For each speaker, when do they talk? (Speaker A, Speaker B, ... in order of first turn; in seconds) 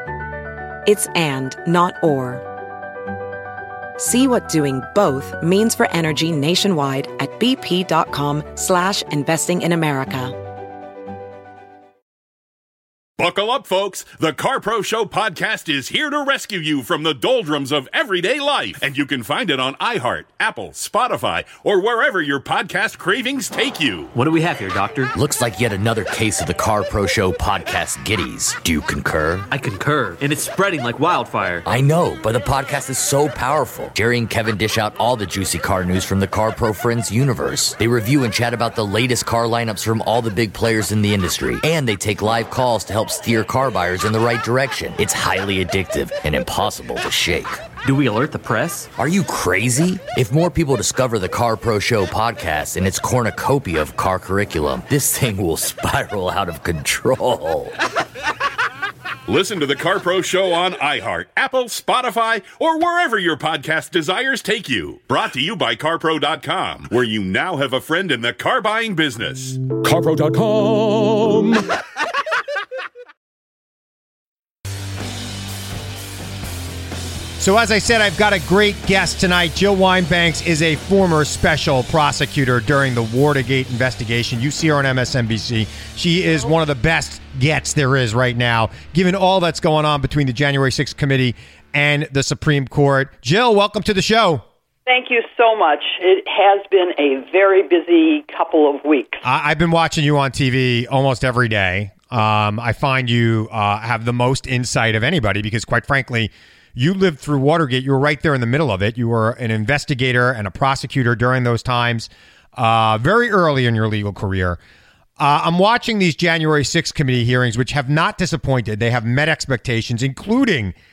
Speaker A: 0.8-2.4, 4.0-10.3
Speaker B: 13.2-24.1, 59.3-71.7
Speaker C: 24.1-25.1, 29.5-31.6, 47.8-48.9
Speaker D: 25.1-29.5, 31.6-47.7, 48.9-57.7
Speaker E: 77.4-94.4, 99.2-114.6, 115.2-120.7
Speaker F: 94.8-99.2